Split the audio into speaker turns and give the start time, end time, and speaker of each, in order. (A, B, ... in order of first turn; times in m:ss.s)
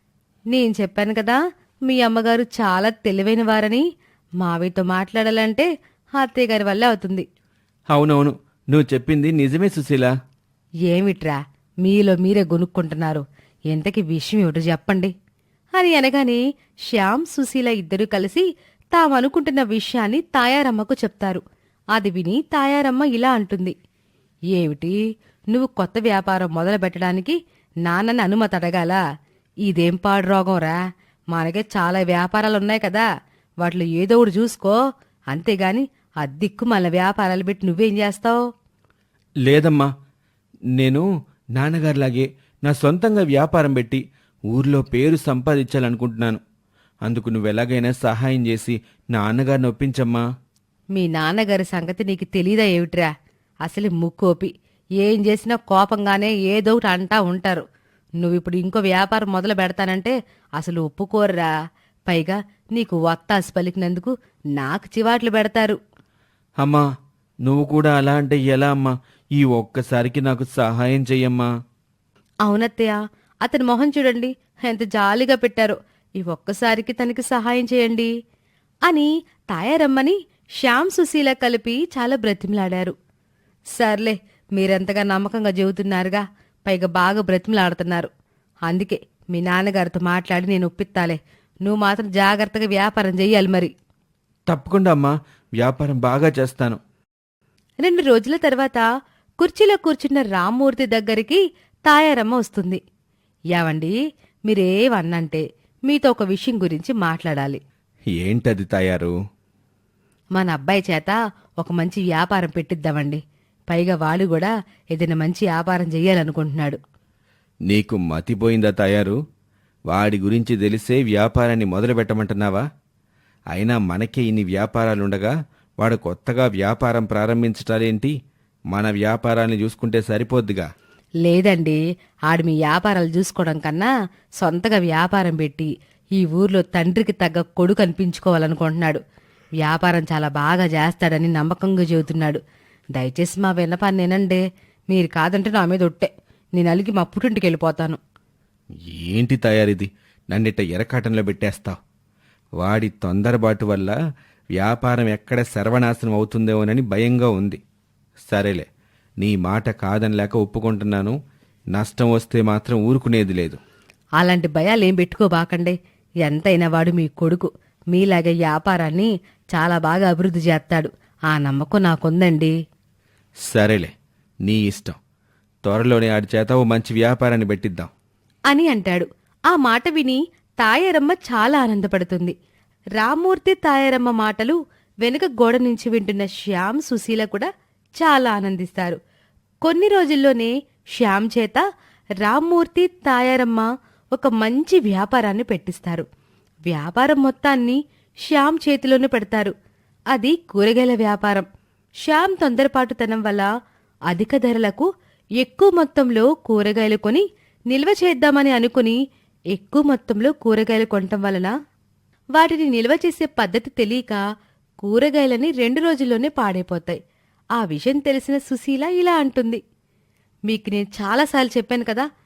0:00.5-0:03.8 A
0:04.4-0:05.7 A
0:06.2-0:07.2 A
0:07.9-0:10.1 B
0:10.9-0:15.1 A
0:15.8-0:21.4 A
0:21.9-0:23.7 A
0:24.5-0:25.0 A
0:25.5-0:27.4 A
0:27.9-0:29.0 A
0:29.6-0:30.8 A
0:31.3-0:33.0 A
0:33.6-0:34.8 A
0:35.3-0:38.4 A
0:39.4-0:39.9 B
0:40.8-0:46.4 B
0:47.0-0:50.2 B
0:50.9-0:53.1 A
0:53.6-0:57.6 A
0:58.2-1:01.5 A
1:02.1-1:05.8 A
1:06.6-1:06.8 B
1:07.4-1:11.5 B
1:12.4-1:18.1 A
1:18.9-1:22.9 A
1:23.7-1:28.1 A
1:28.7-1:33.7 A
1:34.5-1:36.8 B
1:37.8-1:38.8 A
1:39.4-1:42.8 A
1:43.5-1:43.9 A
1:44.5-1:47.6 A
1:48.2-1:49.1 B
1:50.4-1:56.8 A
1:57.7-1:59.2 B
1:59.9-2:02.6 B
2:03.5-2:08.1 B
2:08.7-2:10.7 B
2:11.2-2:11.8 A
2:12.3-2:13.9 A
2:14.4-2:19.0 A
2:19.6-2:22.4 A
2:22.9-2:24.4 A
2:24.9-2:28.0 A
2:28.9-2:31.8 B
2:32.6-2:33.9 B
2:34.6-2:37.6 B
2:38.3-2:38.7 B
2:39.2-2:41.2 B
2:41.8-2:43.6 B
2:44.2-2:52.5 A
2:53.5-2:53.9 B
2:54.5-2:55.0 B
2:55.6-2:57.9 B
2:58.5-3:02.3 A
3:03.0-3:09.0 A
3:09.6-3:11.6 A
3:12.2-3:16.0 A
3:16.7-3:19.5 A
3:20.1-3:21.4 A
3:22.0-3:23.5 A
3:24.1-3:24.9 A
3:25.4-3:29.0 A
3:29.5-3:31.5 A
3:32.4-3:34.2 A
3:34.8-3:37.0 A
3:37.6-3:39.6 A
3:40.5-3:42.1 A